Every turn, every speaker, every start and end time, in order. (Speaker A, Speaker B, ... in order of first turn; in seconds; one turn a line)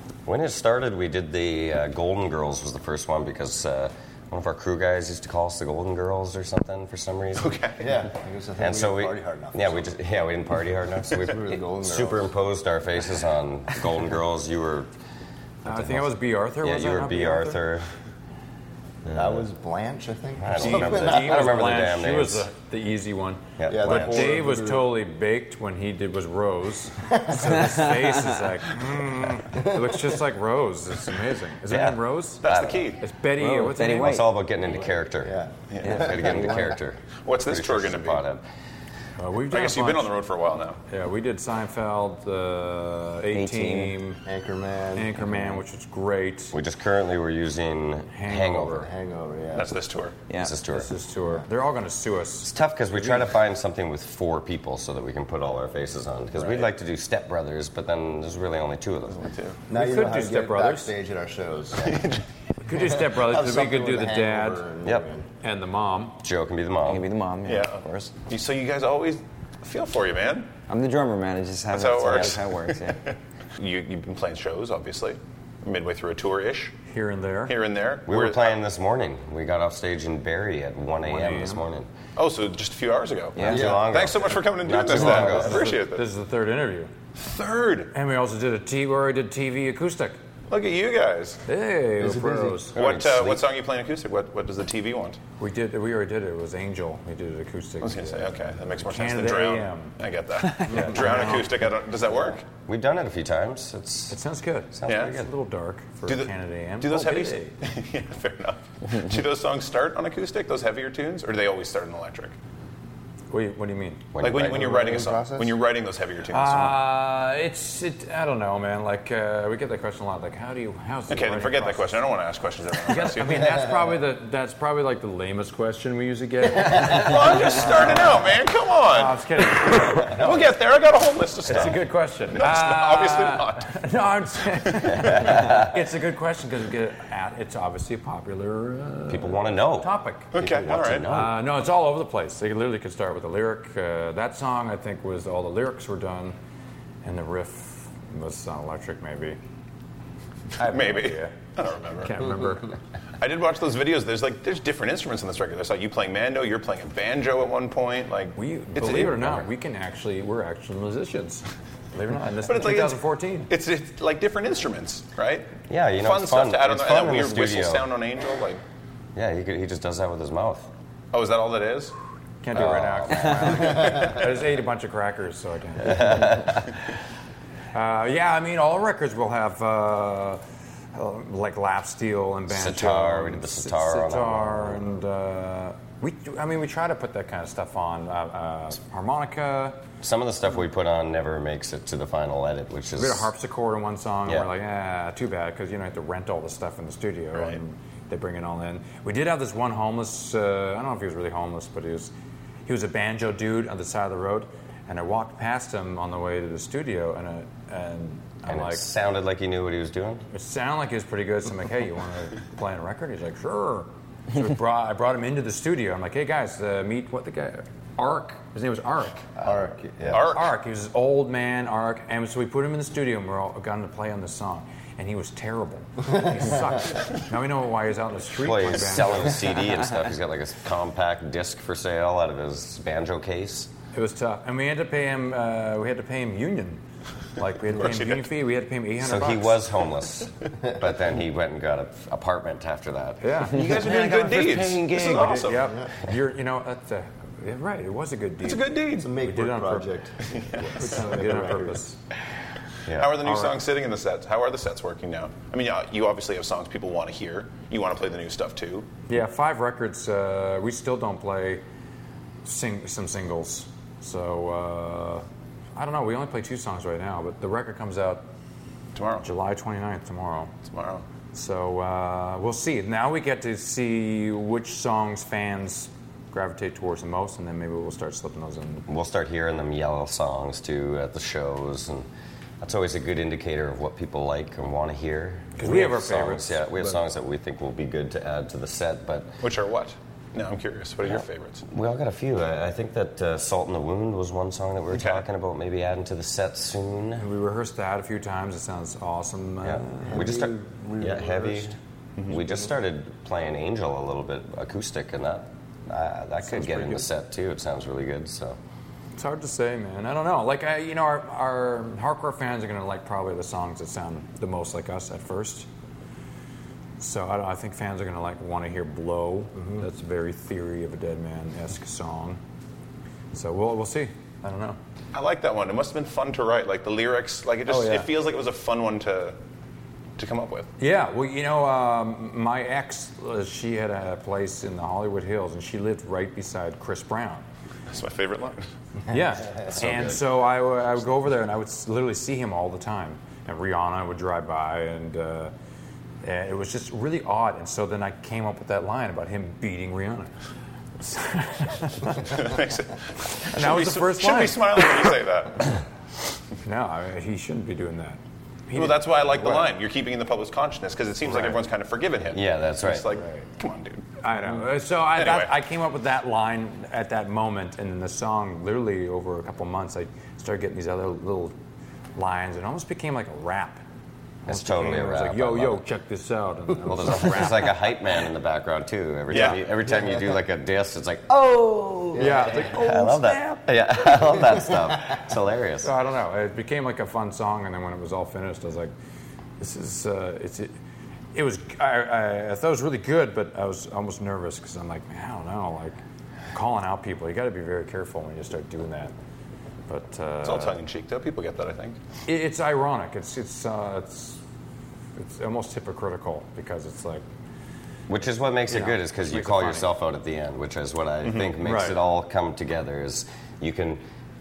Speaker A: 0.2-7.5
Speaker B: 7.3-7.9
Speaker C: 7.8-9.9
Speaker A: 8.6-14.9
Speaker C: 11.2-12.3
Speaker A: 15.6-17.9
Speaker D: 15.6-17.6
Speaker A: 19.0-19.4
Speaker C: 19.1-21.7
Speaker A: 20.4-22.5
Speaker D: 20.6-32.4
Speaker A: 23.6-24.4
Speaker C: 23.7-24.9
Speaker C: 27.0-27.6
Speaker A: 31.7-32.8
Speaker B: 32.4-33.0
Speaker D: 33.0-34.2
Speaker E: 33.4-34.2
Speaker A: 34.0-38.4
Speaker C: 35.2-36.4
Speaker B: 35.7-36.0
Speaker E: 35.8-36.7
Speaker B: 37.2-38.2
Speaker D: 39.2-40.1
Speaker B: 39.5-40.8
Speaker D: 40.9-44.2
Speaker E: 43.3-44.0
Speaker C: 44.2-45.2
Speaker D: 44.9-46.5
Speaker E: 45.2-45.6
Speaker A: 46.5-48.9
Speaker D: 48.1-48.9
Speaker C: 48.8-49.7
Speaker B: 49.5-50.2
Speaker A: 50.4-50.9
Speaker D: 50.7-53.2
Speaker A: 52.4-59.3
Speaker B: 59.2-59.6
Speaker C: 59.7-62.0
Speaker D: 59.7-60.9
Speaker B: 61.8-62.2
Speaker D: 62.6-64.6
Speaker C: 62.7-65.2
Speaker D: 65.4-66.2
Speaker A: 66.2-67.0
Speaker E: 66.8-68.1
Speaker B: 67.5-70.5
Speaker E: 70.7-73.0
Speaker B: 71.7-72.5
Speaker B: 73.1-76.7
Speaker D: 76.9-77.5
Speaker B: 77.5-78.5
Speaker A: 78.1-81.9
Speaker D: 81.0-81.6
Speaker B: 82.2-86.0
Speaker E: 83.4-83.7
Speaker A: 83.4-85.7
Speaker C: 83.4-84.0
Speaker D: 84.9-86.9
Speaker B: 87.2-87.9
Speaker D: 87.9-90.2
Speaker B: 90.5-91.4
Speaker D: 91.5-92.8
Speaker C: 92.0-92.7
Speaker A: 92.7-93.4
Speaker B: 92.7-95.2
Speaker D: 95.4-100.0
Speaker B: 97.8-102.5
Speaker D: 100.6-101.6
Speaker A: 102.7-104.2
Speaker D: 104.1-107.5
Speaker A: 104.7-105.3
Speaker B: 104.9-105.1
Speaker B: 106.0-112.3
Speaker D: 113.3-114.0
Speaker A: 114.1-114.8
Speaker B: 114.2-116.8
Speaker C: 114.5-115.6
Speaker D: 116.3-122.0
Speaker B: 121.1-123.6
Speaker D: 122.9-128.3
Speaker B: 126.8-131.8
Speaker D: 128.8-130.5
Speaker D: 131.4-140.3
Speaker B: 132.3-133.7
Speaker A: 139.1-141.4
Speaker B: 140.3-141.1
Speaker D: 141.1-146.3
Speaker D: 147.0-149.4
Speaker D: 150.6-151.3
Speaker B: 150.7-152.3
Speaker D: 152.0-152.7
Speaker B: 153.2-159.2
Speaker D: 158.3-163.5
Speaker A: 159.0-159.5
Speaker B: 162.4-168.6
Speaker A: 165.7-167.9
Speaker A: 169.1-170.7
Speaker B: 171.1-171.9
Speaker D: 172.4-176.7
Speaker A: 172.5-173.7
Speaker A: 175.9-176.3
Speaker D: 177.7-180.4
Speaker D: 180.9-189.8
Speaker A: 182.5-184.8
Speaker A: 190.0-193.3
Speaker D: 192.9-202.1
Speaker B: 197.3-197.6
Speaker D: 202.7-208.8
Speaker A: 208.4-210.2
Speaker D: 210.3-219.3
Speaker C: 219.4-220.2
Speaker B: 220.1-220.5
Speaker D: 220.1-229.5
Speaker A: 228.3-233.7
Speaker D: 233.9-236.8
Speaker D: 237.3-239.6
Speaker B: 237.8-238.2
Speaker A: 239.0-245.5
Speaker D: 243.2-244.5
Speaker B: 243.5-245.7
Speaker D: 245.0-250.0
Speaker C: 245.2-245.9
Speaker B: 248.4-249.1
Speaker C: 249.0-251.8
Speaker B: 250.2-251.0
Speaker D: 250.5-252.0
Speaker A: 252.9-253.1
Speaker B: 252.9-258.9
Speaker D: 253.2-253.6
Speaker D: 259.1-261.6
Speaker D: 262.4-268.2
Speaker B: 268.9-269.2
Speaker D: 269.2-270.5
Speaker B: 270.7-271.0
Speaker D: 271.3-278.9
Speaker A: 278.9-282.1
Speaker A: 282.6-289.3
Speaker D: 285.6-287.0
Speaker B: 289.4-291.6
Speaker A: 291.7-297.2
Speaker B: 294.9-295.2
Speaker D: 297.2-300.3
Speaker A: 299.6-308.6
Speaker C: 300.0-301.7
Speaker D: 306.4-307.1
Speaker D: 309.1-315.7
Speaker D: 317.0-322.4
Speaker D: 323.3-324.8
Speaker B: 325.1-329.4
Speaker D: 327.7-328.1
Speaker B: 330.2-330.7
Speaker D: 330.8-337.4
Speaker B: 337.9-338.6
Speaker D: 339.1-345.5
Speaker A: 339.7-340.2
Speaker D: 346.2-350.3
Speaker D: 351.0-352.3
Speaker B: 352.2-355.8
Speaker D: 353.5-355.0
Speaker D: 356.6-359.7
Speaker B: 358.7-364.1
Speaker A: 362.3-363.1
Speaker D: 363.2-363.4
Speaker D: 364.2-371.5
Speaker B: 365.1-365.5
Speaker D: 372.1-373.8
Speaker A: 374.4-375.8
Speaker D: 374.5-377.8
Speaker A: 376.8-385.9
Speaker B: 379.3-379.6
Speaker D: 382.1-383.6
Speaker D: 385.8-388.9
Speaker D: 389.6-390.7
Speaker D: 391.3-396.0
Speaker D: 396.5-399.1
Speaker D: 399.9-400.8
Speaker B: 400.4-402.0
Speaker D: 402.2-404.4
Speaker D: 405.2-407.2
Speaker A: 408.1-414.0
Speaker D: 408.7-409.9
Speaker B: 411.2-411.5
Speaker D: 411.6-412.0